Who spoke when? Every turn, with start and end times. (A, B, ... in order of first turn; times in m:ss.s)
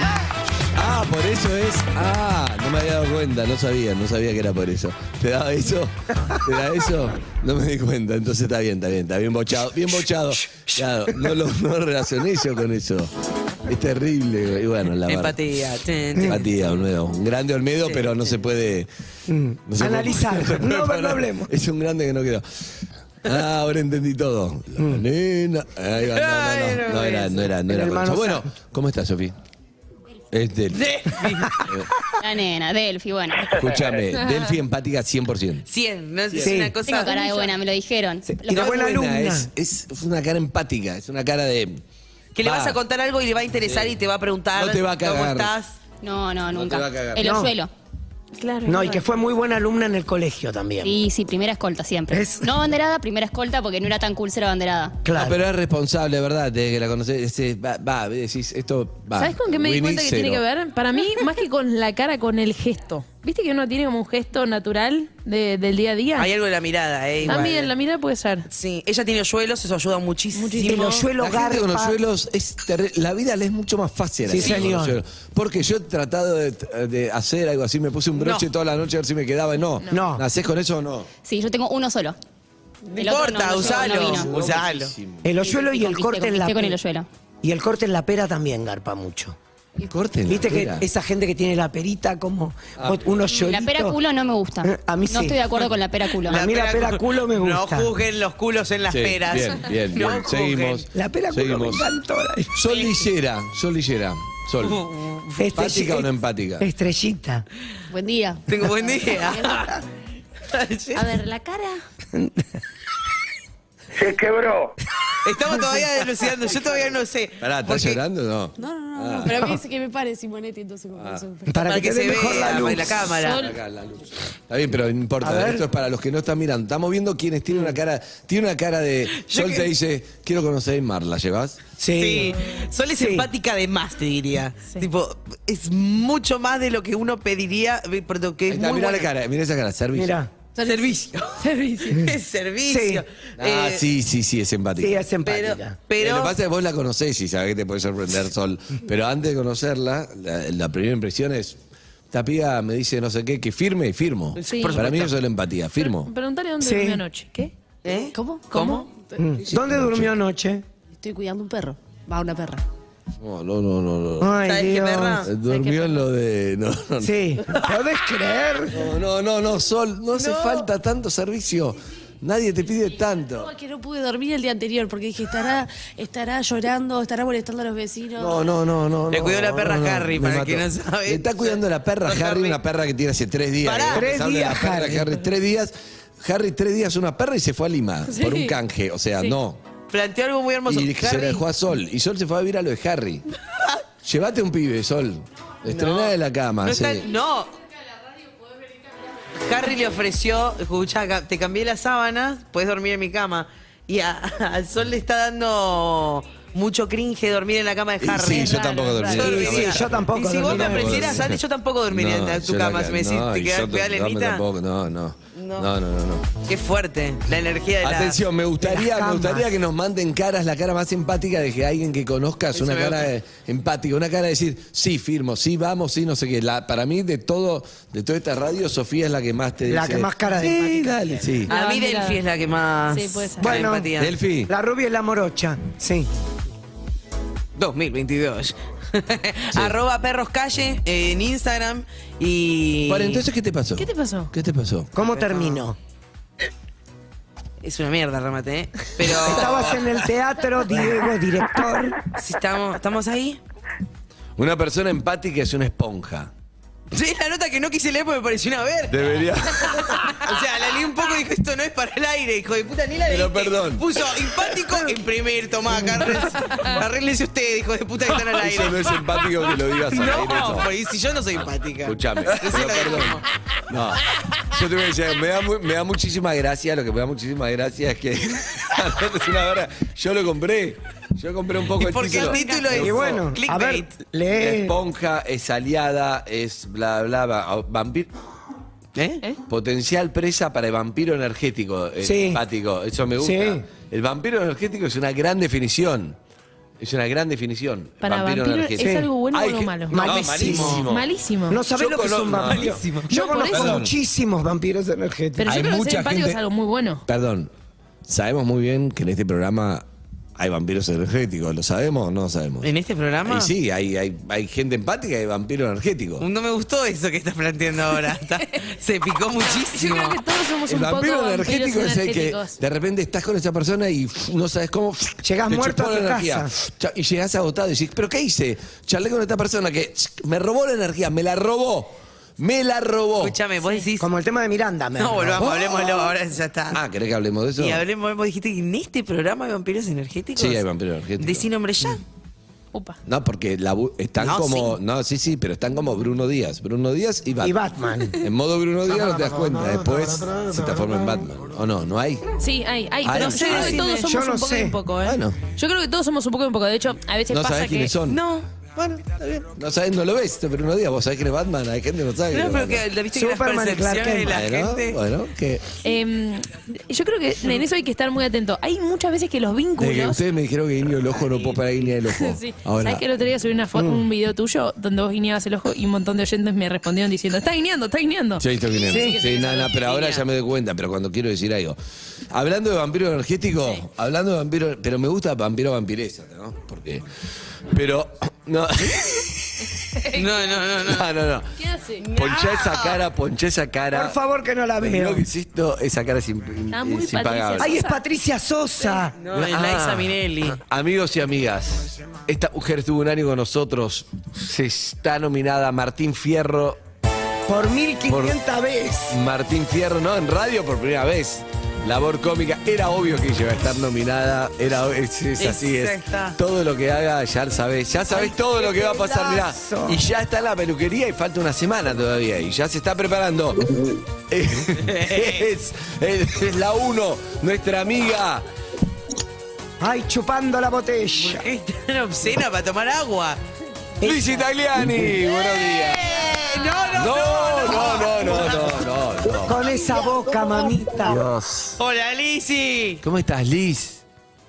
0:00.7-0:13.1 A
0:10.4-0:11.4 B
0:13.7-0:15.4 A
0:15.1-0:16.5 C
0:16.2-0:18.9 A
0:17.8-0:18.4 C
0:19.3-0:21.5 B
0:19.7-0:22.7 A
0:23.2-0:29.4 A
0:24.8-0:25.0 B
0:26.0-0:27.5 C
0:27.7-0:28.5 B
0:30.3-0:31.0 A
0:30.7-0:31.7 C
0:32.2-0:33.6 D
0:33.5-0:35.7 A
0:35.7-0:37.2 C
0:36.3-0:36.6 A
0:36.4-0:36.8 B
0:36.9-0:38.5 D
0:37.1-0:37.5 E
0:38.2-0:39.5 B
0:38.5-0:41.8 A
0:42.4-0:45.8 C
0:42.4-0:42.8 A
0:43.6-0:44.0 A
0:44.6-0:45.5 A
0:46.0-0:47.7 D
0:46.5-0:47.5 A
0:47.2-0:47.5 B
0:48.4-0:49.0 E
0:48.7-0:51.0 B
0:50.8-0:55.0 D
0:52.1-0:52.6 B
0:55.0-0:55.4 B
0:55.1-1:00.4 A
0:59.2-1:06.3 E
1:06.2-1:07.7 C
1:07.3-1:08.5 E
1:08.5-1:11.0 C
1:10.4-1:11.1 E
1:10.6-1:12.0 B
1:11.2-1:21.1 A
1:14.2-1:15.0 B
1:18.1-1:18.5 C
1:19.9-1:20.3 B
1:21.2-1:22.2 D
1:22.9-1:24.9 C
1:23.0-1:24.4 D
1:23.4-1:25.3 A
1:25.2-1:26.8 B
1:25.5-1:27.1 D
1:27.4-1:29.4 B
1:29.9-1:30.8 A
1:30.3-1:34.0 B
1:32.8-1:33.1 A
1:33.4-1:36.5 D
1:34.6-1:35.5 B
1:36.2-1:40.9 C
1:36.2-1:37.9 B
1:38.9-1:41.9 A
1:40.9-1:42.6 B
1:42.5-1:44.8 A
1:42.7-1:43.0 C
1:44.6-1:45.5 C
1:45.4-1:47.5 B
1:45.6-1:46.7 A
1:47.9-1:49.7 F
1:48.5-1:49.8 C
1:50.5-1:51.1 C
1:51.0-1:51.8 E
1:52.1-1:52.5 B
1:54.1-1:54.6 G
1:55.2-1:58.0 C
1:57.4-1:59.6 A
1:58.6-2:01.7 F
1:59.3-1:59.6 B
2:01.0-2:01.2 A
2:01.5-2:03.0 B
2:01.6-2:03.5 C
2:03.2-2:03.6 E
2:03.2-2:11.6 A
2:05.2-2:05.6 B
2:07.5-2:07.8 C
2:09.1-2:09.7 C
2:11.8-2:12.4 B
2:12.0-2:19.1 C
2:12.9-2:13.3 B
2:18.5-2:20.2 A
2:19.9-2:20.3 B
2:20.6-2:23.9 C
2:20.6-2:20.9 F
2:21.4-2:22.1 E
2:22.7-2:23.0 B
2:23.4-2:25.0 A
2:24.8-2:25.8 B
2:25.2-2:26.4 C
2:26.0-2:31.6 A
2:32.1-2:36.1 A
2:34.4-2:35.2 C
2:34.5-2:34.8 E
2:35.8-2:37.5 E
2:36.6-2:37.0 B
2:37.8-2:38.9 C
2:38.1-2:39.0 F
2:38.5-2:38.9 E
2:39.2-2:40.6 B
2:39.5-2:40.1 A
2:40.9-2:42.6 F
2:43.2-2:44.4 A
2:44.2-2:45.3 B
2:44.4-2:45.3 C
2:45.2-2:47.2 A
2:45.5-2:45.9 F
2:47.0-2:48.9 B
2:48.7-2:53.5 A
2:50.1-2:50.7 C
2:53.4-2:58.4 F
2:58.2-3:09.6 A
2:59.1-3:02.6 C
3:03.6-3:04.2 C
3:03.9-3:05.2 B
3:08.1-3:08.6 E
3:09.9-3:11.4 C
3:10.7-3:13.2 A
3:14.0-3:17.1 A
3:15.7-3:17.5 C
3:19.4-3:34.4 C
3:28.0-3:31.4 A
3:28.4-3:29.2 E
3:29.1-3:31.3 B
3:31.9-3:36.3 A
3:35.4-3:35.7 C
3:36.4-3:38.2 C
3:37.8-3:51.5 A
3:38.6-3:39.5 B
3:42.5-3:43.1 C
3:49.7-3:51.4 B
3:51.5-3:54.2 C
3:51.5-3:52.2 E
3:52.9-3:53.6 E
3:53.4-3:53.9 B
3:54.0-3:54.5 A
3:54.5-3:56.1 B
3:57.6-4:03.2 C
4:02.9-4:04.9 A
4:03.8-4:04.3 E
4:04.9-4:05.8 B
4:05.1-4:05.7 C
4:07.6-4:09.9 C
4:09.0-4:12.0 B
4:12.1-4:13.4 C
4:14.4-4:16.3 A
4:16.9-4:33.2 C
4:18.9-4:20.2 A
4:23.1-4:24.0 A
4:28.3-4:30.7 A
4:31.8-4:43.2 A
4:41.8-4:44.0 C
4:42.7-4:44.8 B
4:44.3-4:48.1 A
4:49.0-4:49.2 C
4:49.5-4:56.2 A
4:52.0-4:52.4 B
4:53.2-4:53.6 B
4:56.8-5:01.1 A
4:58.0-5:00.1 E
4:58.8-4:59.1 B
4:59.9-5:00.9 B
5:00.4-5:00.8 C
5:00.7-5:01.6 E
5:01.5-5:05.6 B
5:01.7-5:02.8 A
5:02.3-5:03.2 C
5:03.1-5:03.8 E
5:03.4-5:03.9 A
5:05.4-5:07.0 E
5:05.5-5:06.4 A
5:07.1-5:07.5 A
5:08.0-5:09.9 A
5:10.4-5:12.7 A
5:12.6-5:13.5 C
5:13.2-5:16.3 A
5:16.2-5:20.2 C
5:19.4-5:22.6 E
5:20.7-5:33.4 A
5:25.2-5:26.5 B
5:33.2-5:34.1 C
5:34.0-5:35.7 B
5:35.0-5:36.8 C
5:35.4-5:36.0 A
5:36.7-5:37.8 A
5:37.6-5:40.6 C
5:40.4-5:41.5 A
5:41.2-5:42.0 C
5:42.7-5:43.0 E
5:43.1-5:47.6 A
5:44.2-5:44.8 C
5:47.4-5:48.2 B
5:48.2-5:52.2 A
5:52.4-5:58.0 E
5:53.0-5:53.8 A
5:53.2-5:54.0 C
5:53.8-5:54.8 B
5:55.0-5:55.4 A
5:57.3-5:58.2 A
5:58.1-5:58.5 C
5:58.8-6:02.8 A
6:02.3-6:05.0 C
6:03.1-6:04.4 B
6:04.3-6:05.7 A
6:05.8-6:10.2 E
6:09.8-6:13.0 A
6:12.0-6:19.8 E
6:13.8-6:14.1 B
6:18.4-6:21.8 A
6:18.9-6:19.2 B
6:19.8-6:20.2 C
6:22.3-6:27.1 A
6:27.7-6:29.7 A
6:30.0-6:30.3 E
6:30.1-6:31.1 C
6:30.7-6:31.5 A
6:31.6-6:32.1 E
6:32.0-6:33.0 C
6:32.2-6:34.2 A
6:33.9-6:35.3 B
6:34.8-6:37.8 A
6:36.7-6:38.0 E
6:37.6-6:39.2 B
6:38.9-6:40.6 C
6:39.3-6:46.8 A
6:47.5-6:49.2 B
6:48.1-6:48.4 A
6:49.1-7:03.7 A
6:55.4-6:56.4 C
6:58.1-7:00.0 B
7:03.7-7:04.0 G
7:04.3-7:08.5 A
7:04.8-7:05.5 C
7:09.8-7:11.4 B
7:11.1-7:13.4 C
7:14.0-7:15.2 B
7:14.0-7:16.1 A
7:15.2-7:18.8 C
7:16.9-7:19.6 A
7:17.7-7:21.2 G
7:19.4-7:21.2 B
7:21.0-7:21.8 A
7:21.8-7:23.0 C
7:23.0-7:24.0 A